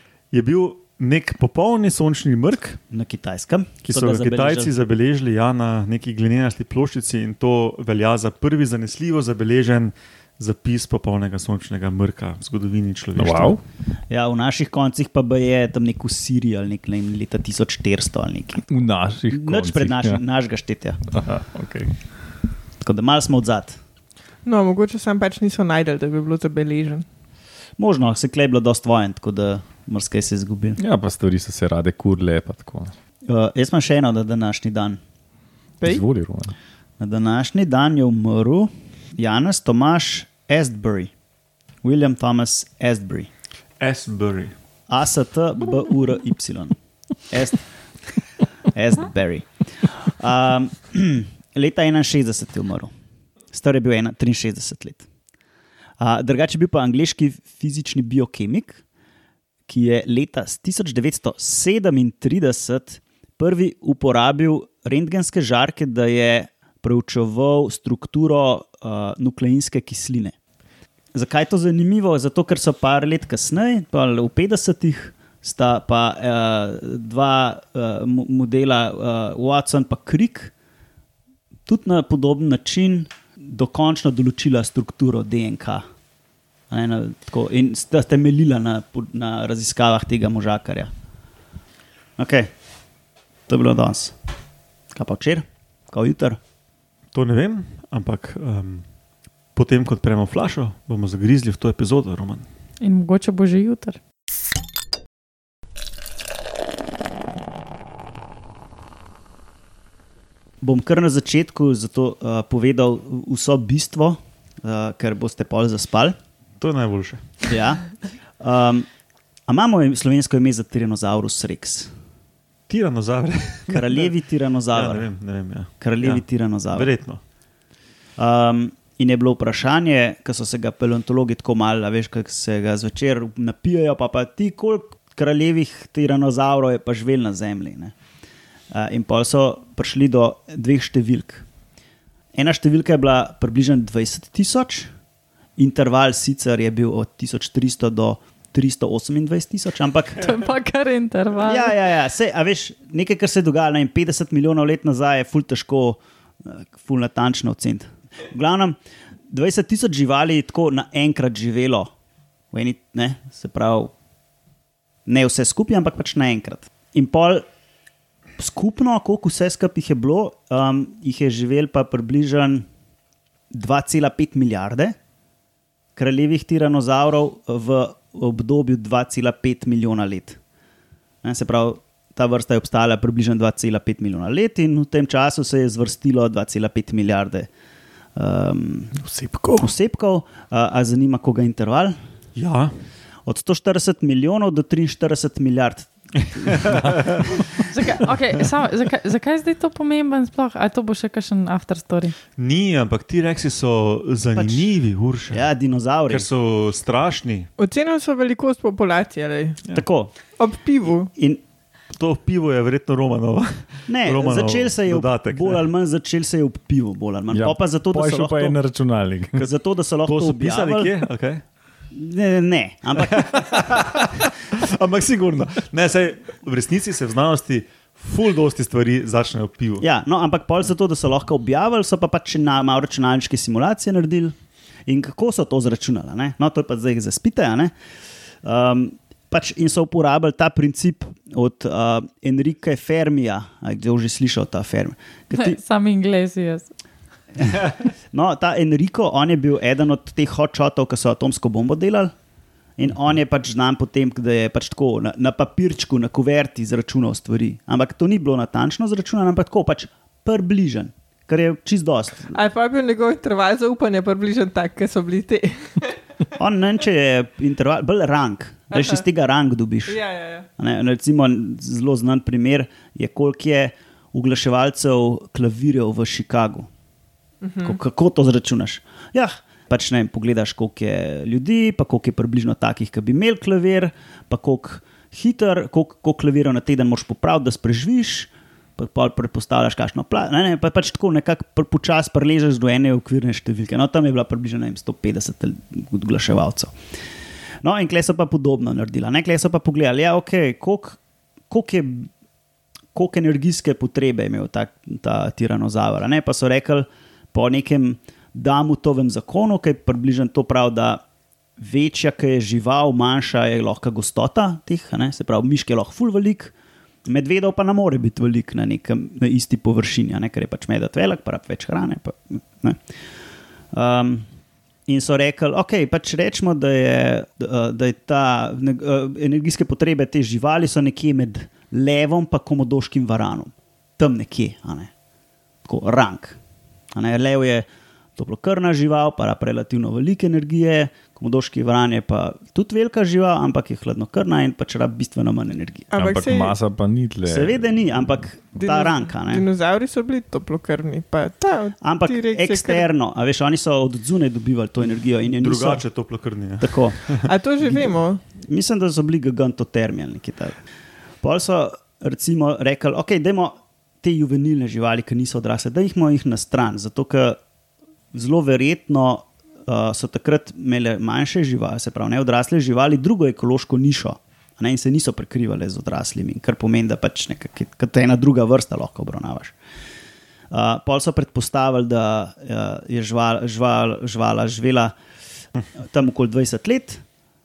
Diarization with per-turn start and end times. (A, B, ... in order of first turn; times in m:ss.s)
0:00.3-0:02.8 A
0:02.9-0:04.7 B
0:03.9-0:13.6 A
0:13.2-0:13.6 C
0:14.1-0:18.7 B
0:18.7-0:20.2 C
0:19.3-0:21.0 B
0:21.1-0:22.0 C
0:22.8-0:23.8 B
0:24.4-0:27.0 D
0:27.8-0:30.8 B
0:30.8-0:32.9 C
0:33.2-0:35.0 B
0:35.8-0:36.5 C
0:37.0-0:41.1 B
0:41.8-0:43.3 B
0:43.8-0:44.5 A
0:44.9-0:46.7 B
0:47.3-0:47.6 B
0:48.7-0:52.9 B
0:53.5-0:55.0 B
0:56.0-0:58.8 B
0:59.7-1:10.3 B
1:11.1-1:20.5 B
1:21.7-1:25.8 B
1:26.7-1:30.9 B
1:32.2-1:32.5 B
1:33.5-1:34.1 B
1:34.9-1:36.4 B
1:37.1-1:38.8 A
1:39.5-1:42.5 A
1:42.8-1:44.0 E
1:50.6-1:56.2 B
1:56.6-1:57.4 A
1:57.5-1:57.9 B
1:58.4-1:58.9 B
1:59.5-2:01.9 B
2:02.7-2:04.1 A
2:03.7-2:05.1 B
2:04.7-2:07.2 A
2:05.8-2:06.9 B
2:08.2-2:17.9 B
2:18.7-2:21.4 B
2:22.3-2:24.9 B
2:25.6-2:30.4 B
2:30.2-2:31.8 E
2:31.4-2:38.8 B
2:39.3-2:41.9 B
2:42.5-2:43.9 B
2:45.0-2:47.4 B
2:48.4-2:52.6 B
2:53.5-2:55.0 B
2:56.0-3:00.4 B
3:01.2-3:07.5 B
3:08.2-3:08.9 B
3:09.0-3:09.6 C
3:09.6-3:12.0 B
3:12.3-3:12.7 A
3:13.2-3:17.2 B
3:16.5-3:17.2 A
3:17.7-3:22.2 E
3:22.4-3:25.4 A
3:24.3-3:24.7 B
3:25.3-3:26.3 B
3:26.1-3:27.5 A
3:27.6-3:29.6 D
3:29.7-3:30.1 B
3:30.3-3:31.1 D
3:31.9-3:35.7 A
3:33.9-3:38.6 B
3:37.3-3:39.4 C
3:39.3-3:40.9 B
3:40.0-3:41.4 A
3:41.9-3:44.0 B
3:43.0-3:49.8 A
3:49.8-3:54.3 B
3:54.9-3:57.7 B
3:58.4-4:05.6 B
4:05.3-4:06.7 E
4:07.4-4:12.1 B
4:12.8-4:22.4 B
4:22.3-4:26.0 D
4:26.4-4:30.0 B
4:28.7-4:29.0 D
4:29.9-4:30.5 D
4:30.6-4:36.7 B
4:37.4-4:37.8 D
4:37.6-4:56.7 B
4:57.6-5:01.0 B
5:01.5-5:02.1 B
5:02.9-5:11.0 B
5:11.6-5:16.5 B
5:17.0-5:22.8 B
5:23.7-5:24.2 B
5:24.9-5:34.9 B
5:35.6-5:36.4 B
5:36.9-5:37.6 B
5:38.2-5:45.9 B
5:45.9-5:46.6 D
5:46.0-5:47.6 C
5:47.2-5:49.4 B
5:48.6-5:52.8 D
5:51.8-5:55.8 B
5:55.4-5:57.3 A
5:56.6-6:00.6 B
5:57.2-5:58.2 D
6:01.2-6:07.4 B
6:08.1-6:19.5 B
6:20.5-6:24.9 B
6:25.8-6:27.0 B